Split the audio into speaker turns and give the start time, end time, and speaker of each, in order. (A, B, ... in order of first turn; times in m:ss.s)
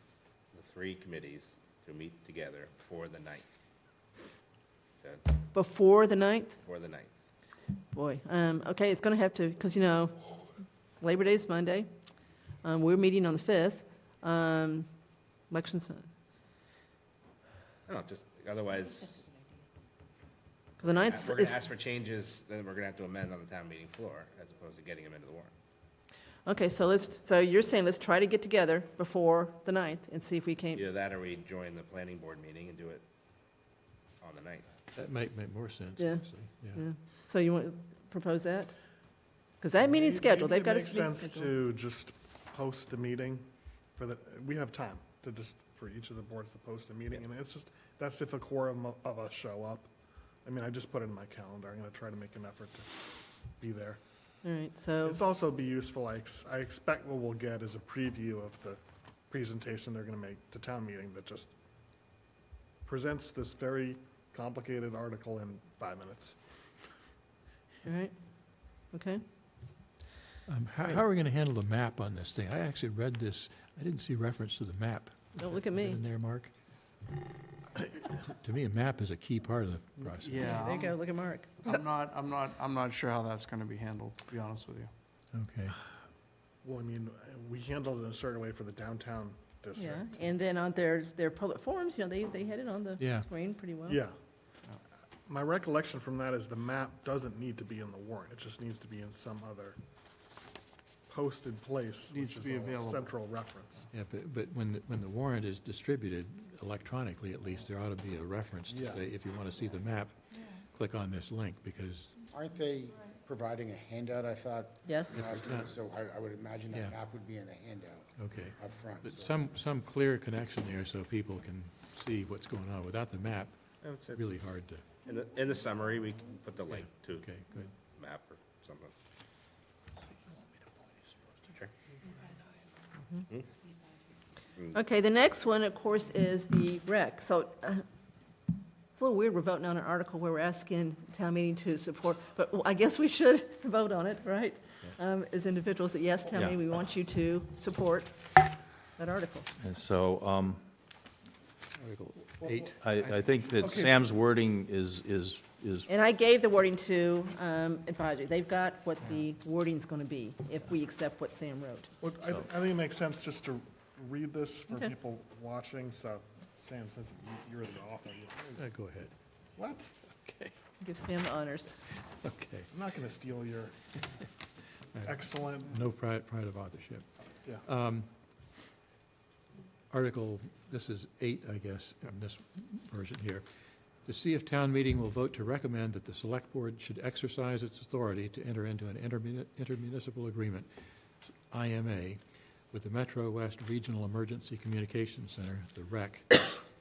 0:00.5-0:03.4 A
0:05.5-0:06.6 B
0:06.6-0:07.1 A
0:07.9-0:10.3 B
0:11.0-0:11.9 B
0:12.6-0:14.9 B
0:15.5-0:16.1 B
0:17.9-0:19.3 A
0:20.8-0:21.6 B
0:20.8-0:25.5 A
0:26.4-0:30.8 B
0:30.7-0:33.0 A
0:34.2-0:34.7 A
0:35.0-0:36.8 C
0:36.0-0:36.2 B
0:36.8-0:38.7 B
0:39.6-0:41.5 B
0:39.8-0:49.9 D
0:50.4-0:54.0 D
0:54.4-0:55.2 B
0:55.0-1:01.5 D
1:02.8-1:06.4 D
1:07.8-1:08.1 B
1:08.9-1:09.2 B
1:10.5-1:16.5 C
1:15.4-1:16.0 B
1:18.3-1:20.4 C
1:20.2-1:21.0 E
1:20.4-1:21.8 B
1:21.7-1:24.9 E
1:25.3-1:25.8 C
1:26.6-1:30.3 D
1:29.8-1:34.0 B
1:33.0-1:33.2 C
1:33.9-1:34.1 D
1:35.3-1:39.8 D
1:41.1-1:43.9 D
1:42.1-1:43.1 E
1:43.9-1:50.2 C
1:48.7-1:49.0 D
1:50.7-1:52.2 C
1:52.3-1:59.5 F
1:54.9-1:55.3 B
1:58.2-2:03.6 C
2:03.8-2:04.2 A
2:04.2-2:05.0 C
2:05.0-2:07.3 A
2:06.7-2:07.8 C
2:07.9-2:08.9 A
2:10.2-2:11.5 C
2:14.7-2:17.8 B
2:19.0-2:28.2 B
2:29.0-2:29.5 B
2:29.6-2:30.6 G
2:31.8-2:32.8 C
2:32.8-2:35.9 G
2:35.9-2:41.9 B
2:42.0-2:48.6 D
2:48.6-2:49.1 C
2:49.6-2:50.6 D
2:50.8-2:51.8 B
2:52.2-2:52.7 C
2:52.7-2:53.9 D
2:55.0-2:55.8 D
2:55.7-2:57.0 C
2:57.7-2:58.1 C
2:59.9-3:03.4 C
3:04.1-3:10.7 C
3:11.5-3:12.2 C
3:12.7-3:16.4 C